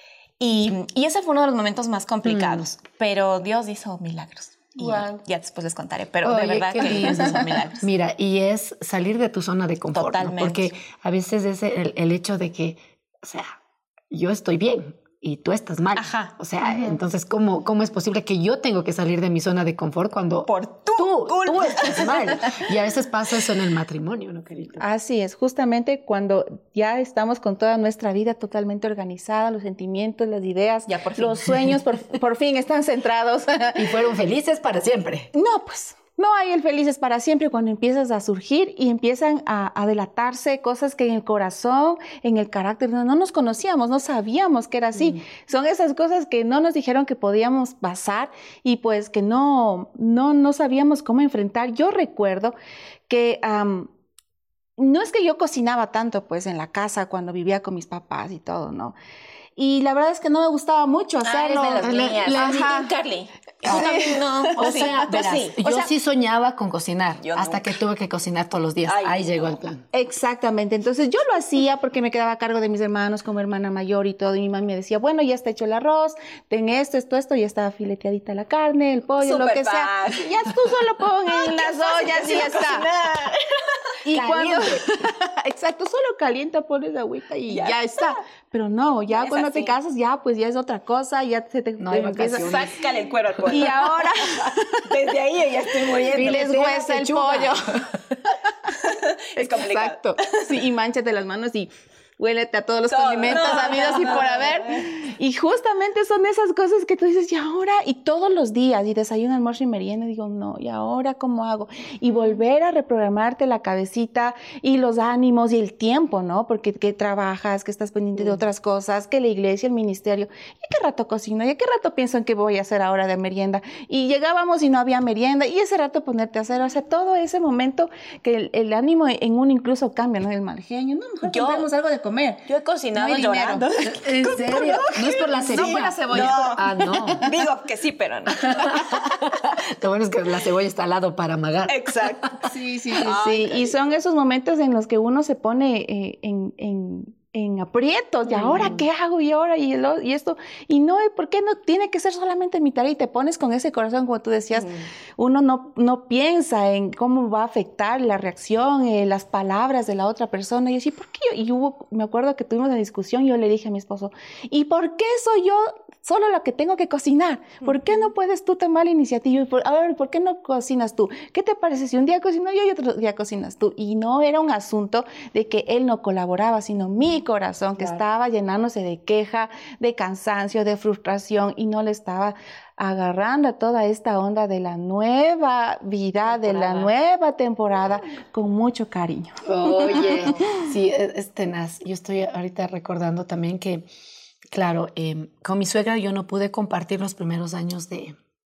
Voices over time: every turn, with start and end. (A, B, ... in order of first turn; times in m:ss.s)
0:00.4-0:07.8 A
0:02.2-0:02.6 B
0:04.8-0:05.2 C
0:06.2-0:13.6 B
0:09.9-0:10.7 A
0:14.1-0:24.8 B
0:16.0-0:16.3 A
0:16.7-0:17.0 C
0:20.5-0:22.7 A
0:24.8-0:33.9 C
0:30.9-0:31.7 A
0:33.8-0:35.3 B
0:35.3-0:52.5 C
0:53.1-0:53.9 C
0:54.8-0:58.9 C
0:59.6-1:02.9 C
1:01.2-1:05.9 A
1:01.8-1:02.6 B
1:03.6-1:04.0 B
1:03.7-1:05.0 C
1:04.6-1:09.8 B
1:07.2-1:07.8 A
1:08.8-1:09.6 A
1:09.9-1:22.9 C
1:19.2-1:20.5 A
1:21.3-1:23.6 A
1:24.0-1:32.7 C
1:24.1-1:24.8 B
1:27.5-1:28.2 A
1:29.1-1:29.8 A
1:31.8-1:32.7 B
1:32.3-1:34.1 A
1:33.5-1:34.9 C
1:34.8-1:36.8 A
1:36.0-1:37.9 C
1:36.1-1:37.6 B
1:38.8-1:40.4 A
1:39.4-2:12.4 C
1:42.9-1:44.8 A
2:11.2-2:11.7 A
2:12.5-2:13.7 A
2:12.9-2:17.3 C
2:14.2-2:17.2 B
2:14.3-2:18.9 A
2:18.4-2:22.4 B
2:21.7-2:22.4 A
2:22.4-3:10.3 C
2:23.0-2:23.8 A
2:28.3-2:28.8 B
3:06.4-3:06.8 B
3:09.4-3:13.9 B
3:14.5-3:18.2 B